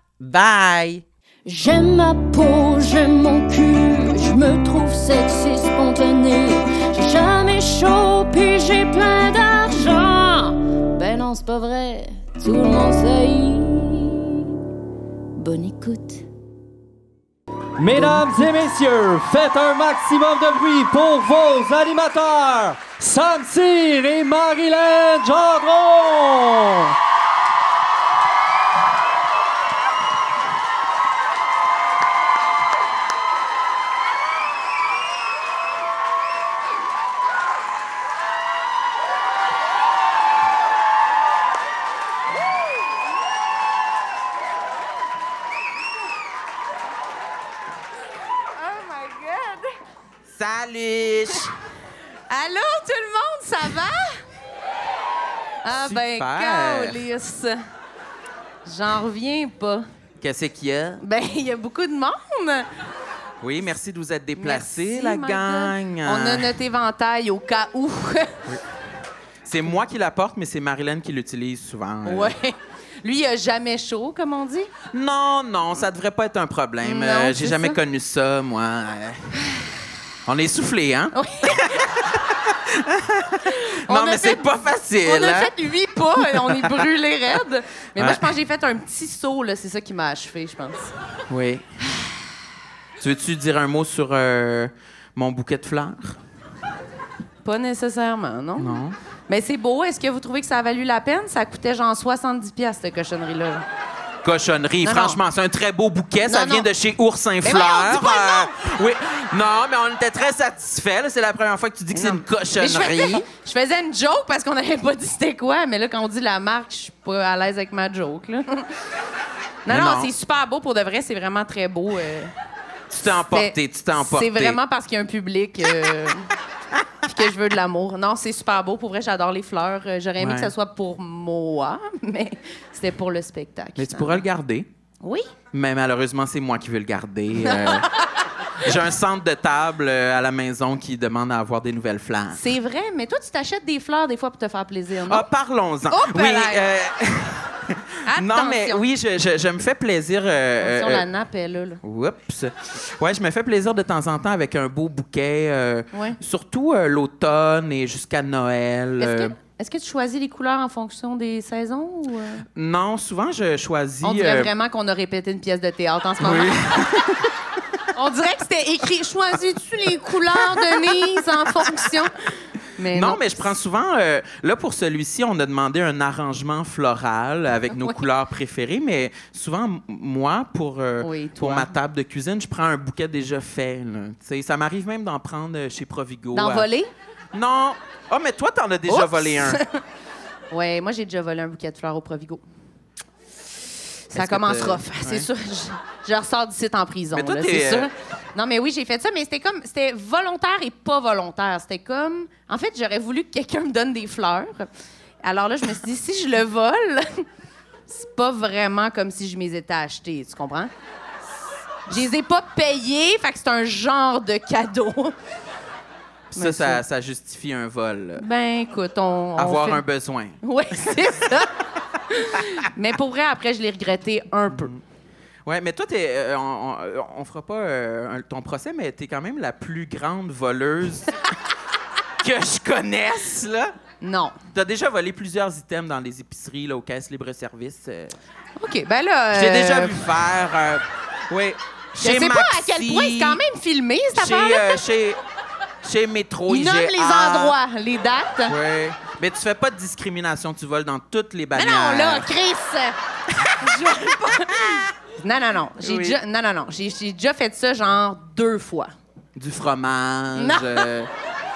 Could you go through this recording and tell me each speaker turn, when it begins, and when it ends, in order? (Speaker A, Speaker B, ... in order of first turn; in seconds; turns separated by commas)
Speaker A: 0.2-1.0, Speaker B: 1.4-14.5, Speaker B: 15.3-16.2, Speaker C: 17.8-26.9, Speaker D: 48.5-49.8, Speaker A: 50.3-51.5, Speaker D: 52.3-54.2, Speaker D: 55.6-57.6, Speaker A: 55.7-57.0, Speaker D: 58.6-59.8, Speaker A: 60.2-61.0, Speaker D: 61.0-62.7, Speaker A: 63.4-66.5, Speaker D: 64.4-68.5, Speaker A: 69.4-72.3, Speaker D: 72.0-74.7, Speaker A: 74.9-79.3, Speaker D: 76.8-77.8, Speaker A: 80.2-85.5, Speaker D: 81.1-82.0, Speaker D: 83.5-90.9, Speaker A: 86.4-86.8, Speaker A: 88.0-88.2, Speaker A: 91.3-91.7, Speaker A: 93.0-96.2, Speaker D: 97.4-103.7, Speaker A: 98.6-99.0, Speaker A: 104.2-113.2, Speaker D: 104.8-105.2, Speaker D: 106.2-106.7, Speaker D: 107.4-108.5, Speaker D: 111.9-118.7, Speaker D: 119.7-122.3, Speaker A: 119.7-120.1, Speaker A: 122.9-124.6, Speaker D: 123.1-126.2, Speaker D: 127.0-134.2, Speaker A: 130.2-130.5, Speaker A: 133.8-134.7, Speaker D: 135.0-135.3, Speaker A: 135.5-138.0, Speaker D: 137.4-138.0, Speaker A: 138.6-142.4, Speaker D: 142.3-145.3, Speaker A: 145.0-151.1, Speaker D: 145.9-146.6, Speaker D: 148.1-148.8, Speaker D: 150.6-151.8, Speaker A: 151.8-159.3, Speaker D: 155.9-156.2, Speaker D: 159.0-162.4, Speaker A: 162.5-164.5, Speaker D: 164.0-167.0, Speaker A: 166.2-167.3, Speaker D: 167.9-172.1, Speaker A: 170.4-170.8, Speaker D: 172.8-173.5, Speaker A: 172.9-186.7, Speaker D: 177.7-178.0, Speaker D: 181.0-181.7, Speaker D: 186.3-186.9, Speaker A: 187.3-189.6, Speaker D: 188.9-189.8, Speaker D: 190.5-192.4, Speaker D: 194.1-204.7, Speaker A: 194.1-195.3, Speaker A: 197.1-197.9, Speaker D: 205.2-207.2, Speaker D: 207.9-210.7, Speaker D: 211.9-215.1, Speaker A: 216.3-218.2, Speaker D: 216.3-216.8, Speaker D: 218.2-219.8, Speaker A: 219.4-221.1, Speaker D: 220.4-221.5, Speaker D: 222.1-224.7, Speaker A: 224.5-224.8, Speaker A: 225.4-231.2, Speaker A: 232.2-233.7, Speaker D: 234.0-234.4, Speaker A: 234.5-238.2, Speaker D: 238.6-240.0, Speaker A: 239.3-243.4, Speaker D: 242.0-244.8, Speaker A: 244.1-245.2, Speaker A: 245.8-247.5, Speaker D: 246.5-248.6, Speaker A: 248.5-252.3, Speaker D: 251.5-258.9, Speaker A: 254.1-254.8, Speaker A: 255.8-256.2, Speaker A: 259.4-261.1, Speaker D: 260.4-260.9